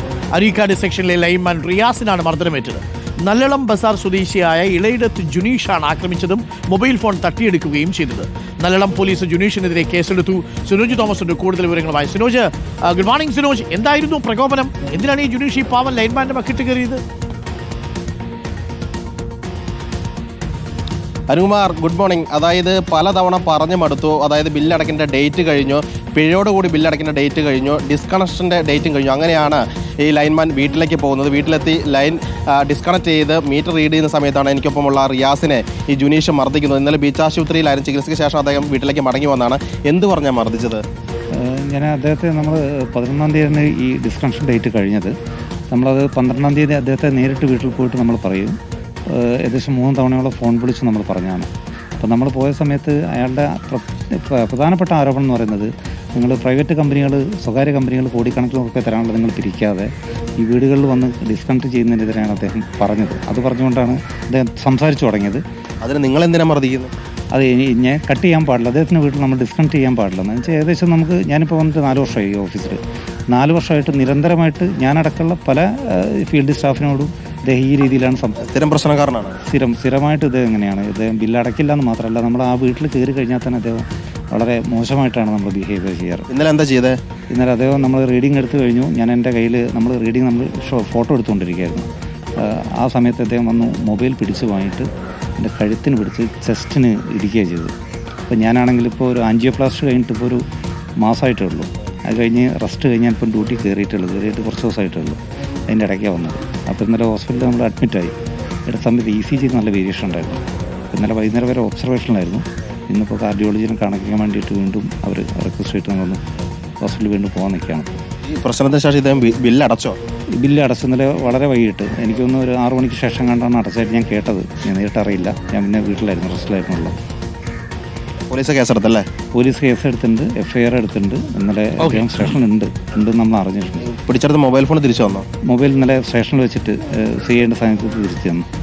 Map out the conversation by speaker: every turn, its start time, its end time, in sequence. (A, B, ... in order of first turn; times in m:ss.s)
0:00.3-0:17.0 A
0:21.3-0:40.8 B
0:41.3-0:45.1 C
0:45.7-0:48.6 C
0:49.1-0:59.9 C
1:00.4-1:05.4 C
1:05.8-1:06.9 B
1:07.3-1:12.8 C
1:13.3-1:18.6 C
1:18.4-1:19.4 B
1:19.4-1:26.3 C
1:26.3-1:27.0 B
1:27.3-1:31.9 C
1:32.4-1:34.9 C
1:35.4-1:37.7 C
1:38.3-1:40.4 C
1:41.0-1:48.1 C
1:48.7-1:56.2 C
1:56.8-1:57.9 C
1:58.3-2:00.0 B
2:00.4-2:07.0 C
2:08.3-2:09.0 B
2:09.4-2:13.9 C
2:11.8-2:12.4 A
2:13.9-2:15.2 B
2:15.5-2:18.4 C